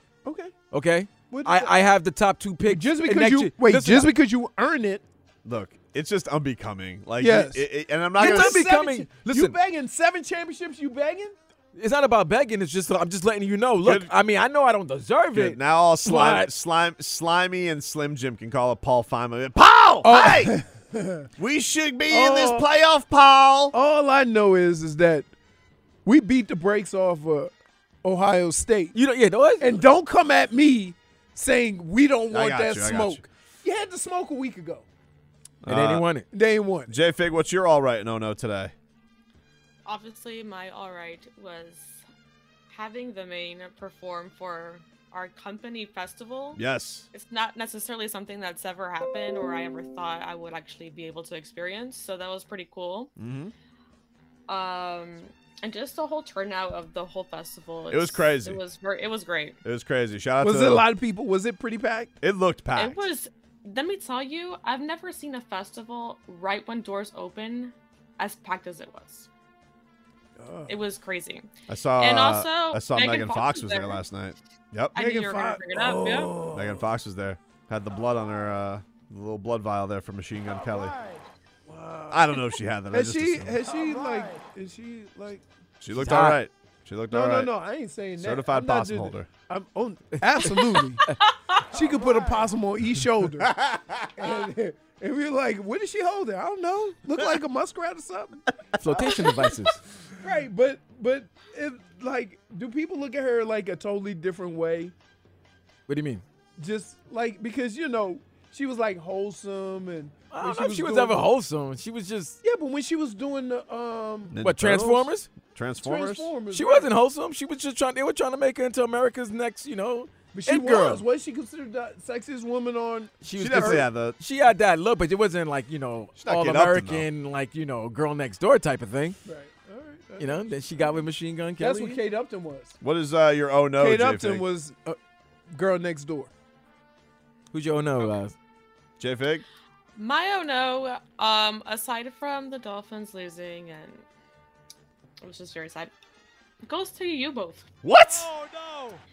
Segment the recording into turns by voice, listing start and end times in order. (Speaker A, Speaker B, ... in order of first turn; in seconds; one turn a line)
Speaker A: 0.2-0.5
Speaker B: 0.7-4.1
Speaker A: 1.3-1.7
Speaker A: 2.6-5.0
Speaker C: 5.4-8.6
Speaker A: 7.2-11.3
Speaker B: 8.2-9.5
Speaker B: 11.8-16.5
Speaker C: 13.8-14.1
Speaker C: 15.3-20.5
Speaker A: 20.0-21.3
Speaker C: 21.4-23.7
Speaker A: 22.1-22.6
Speaker A: 23.7-25.3
Speaker A: 26.1-27.5
Speaker A: 28.0-28.9
Speaker B: 28.9-29.7
Speaker A: 29.6-34.9
Speaker C: 32.3-33.2
Speaker C: 35.6-36.1
Speaker B: 35.7-36.2
Speaker A: 36.3-36.9
Speaker C: 36.9-38.7
Speaker D: 39.9-42.0
Speaker D: 42.7-46.6
Speaker C: 46.5-47.1
Speaker D: 47.1-53.1
Speaker C: 53.2-53.5
Speaker D: 54.5-59.6
Speaker C: 57.9-58.6
Speaker C: 59.6-60.9
Speaker A: 60.4-62.1
Speaker C: 62.2-63.0
Speaker D: 62.8-69.3
Speaker A: 70.4-70.8
Speaker D: 70.7-71.5
Speaker C: 71.7-75.0
Speaker D: 72.0-74.0
Speaker D: 74.9-76.4
Speaker A: 75.0-76.8
Speaker C: 76.5-80.9
Speaker A: 80.6-85.4
Speaker C: 82.1-83.7
Speaker C: 85.8-87.5
Speaker B: 85.9-86.4
Speaker A: 87.1-93.5
Speaker C: 88.2-89.3
Speaker D: 91.1-91.8
Speaker C: 93.4-94.3
Speaker A: 94.1-98.4
Speaker B: 98.8-99.8
Speaker C: 98.8-99.5
Speaker A: 100.2-104.9
Speaker B: 105.9-106.2
Speaker A: 106.6-111.3
Speaker B: 110.3-112.4
Speaker A: 112.4-114.4
Speaker C: 114.3-116.3
Speaker B: 114.4-115.3
Speaker A: 115.8-116.9
Speaker B: 116.5-121.0
Speaker A: 120.3-123.9
Speaker B: 123.2-129.2
Speaker C: 123.4-124.2
Speaker C: 126.2-127.1
Speaker A: 129.2-131.0
Speaker B: 130.2-132.0
Speaker A: 131.6-132.8
Speaker C: 132.8-134.4
Speaker A: 133.8-135.0
Speaker A: 135.5-136.3
Speaker B: 137.5-138.3
Speaker C: 139.0-139.4
Speaker D: 139.9-144.0
Speaker D: 145.2-145.9
Speaker D: 146.6-147.7
Speaker C: 147.8-148.3
Speaker B: 148.3-148.9